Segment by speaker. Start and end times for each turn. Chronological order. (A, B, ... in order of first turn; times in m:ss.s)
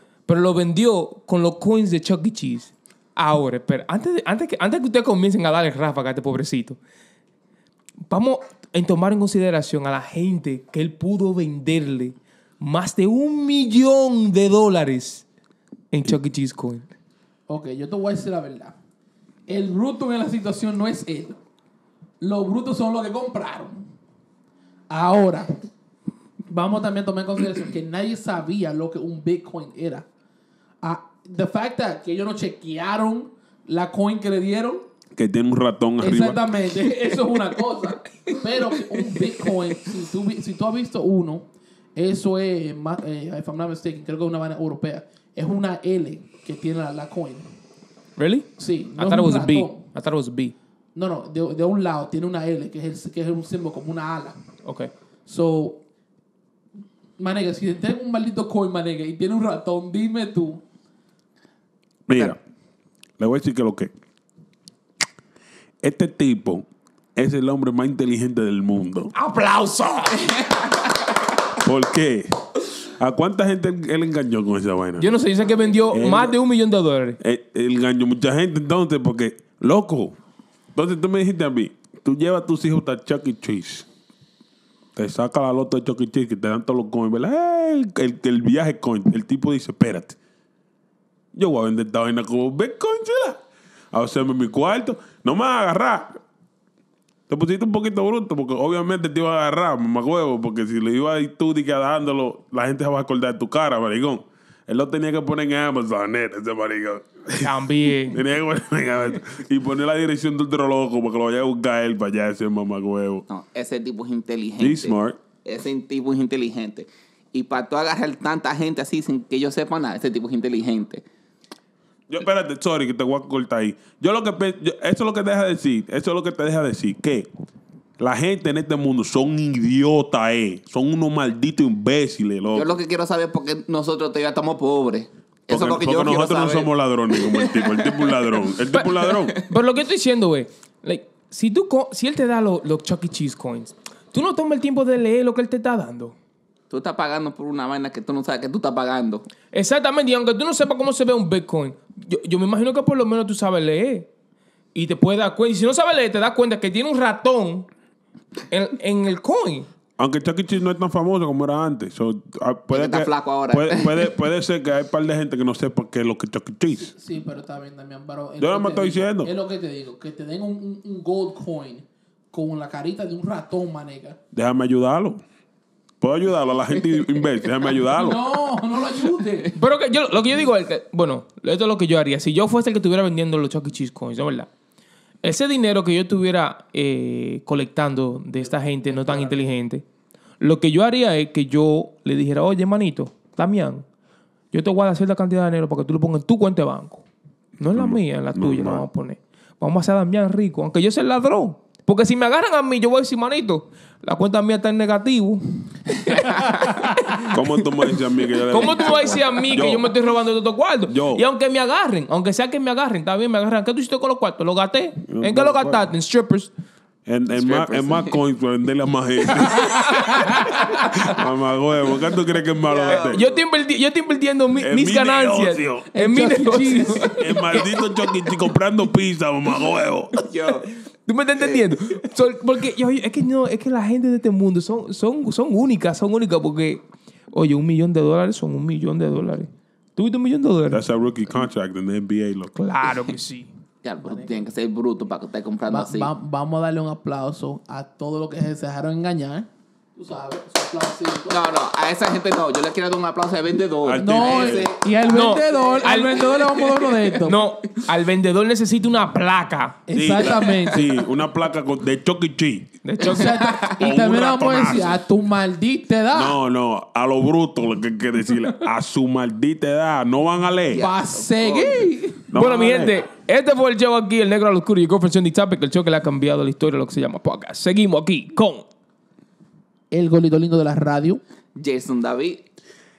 0:00.3-0:06.8 A
0:08.1-0:15.2 A
0:15.9-0:16.9 A
0:17.5-0:18.7 B
0:19.5-0:21.4 B
0:22.2-0:23.9 B
0:24.9-0:25.5 B
0:26.5-0:30.1 B
0:30.8-0:34.9 B
0:35.1-0:36.4 C
0:36.0-0:47.5 B
0:48.2-0:50.5 A
0:48.6-0:49.8 B
0:50.9-0:54.4 B
0:54.6-0:54.9 A
0:55.2-0:55.8 B
0:57.2-1:00.6 B
1:02.1-1:02.4 C
1:03.2-1:03.9 C
1:05.8-1:09.1 C
1:09.1-1:10.5 A
1:11.6-1:15.1 C
1:15.0-1:17.2 A
1:15.9-1:16.4 C
1:17.2-1:20.2 C
1:20.7-1:23.8 C
1:25.0-1:30.2 C
1:31.3-1:33.4 C
1:33.9-1:36.2 C
1:37.3-1:53.2 C
1:47.4-1:48.2 A
1:53.3-2:01.0 D
1:54.6-1:55.2 C
2:02.1-2:07.3 C
2:08.0-2:12.7 C
2:12.5-2:18.4 D
2:15.5-2:19.4 C
2:18.7-2:26.2 A
2:19.1-2:19.4 D
2:26.7-2:29.3 D
2:29.5-2:34.1 A
2:34.7-2:37.7 A
2:38.5-2:39.7 A
2:40.0-2:46.9 C
2:42.7-2:44.1 D
2:46.8-2:54.2 B
2:48.4-2:49.3 C
2:54.3-2:55.2 C
2:56.0-2:58.2 C
2:57.8-2:59.6 B
2:59.5-3:04.5 A
3:05.2-3:09.8 A
3:08.9-3:09.3 B
3:10.4-3:13.8 A
3:14.5-3:17.0 A
3:17.6-3:27.3 A
3:17.7-3:18.8 C
3:27.3-3:29.9 C
3:28.5-3:36.5 A
3:30.9-3:31.2 C
3:35.1-3:35.9 C
3:37.1-3:40.3 C
3:37.3-3:38.2 D
3:39.4-3:41.0 A
3:41.0-3:43.2 C
3:42.6-3:43.4 D
3:42.9-3:47.7 A
3:44.5-3:45.9 C
3:45.9-3:47.7 B
3:47.2-3:50.1 C
3:50.2-3:50.7 D
3:51.0-4:00.8 A
4:00.7-4:02.5 C
4:02.5-4:03.5 A
4:03.8-4:06.1 D
4:04.0-4:04.4 A
4:05.7-4:11.5 B
4:11.3-4:14.9 D
4:13.8-4:14.7 C
4:13.9-4:17.4 B
4:15.0-4:19.8 A
4:19.9-4:20.9 B
4:19.9-4:22.7 C
4:20.2-4:20.9 D
4:22.8-4:23.4 A
4:23.0-4:26.4 B
4:23.0-4:23.7 D
4:23.8-4:25.0 C
4:26.1-4:30.8 C
4:30.7-4:31.9 D
4:30.8-4:32.3 B
4:32.3-4:33.0 C
4:32.3-4:38.6 A
4:39.9-4:41.2 B
4:41.6-4:42.4 D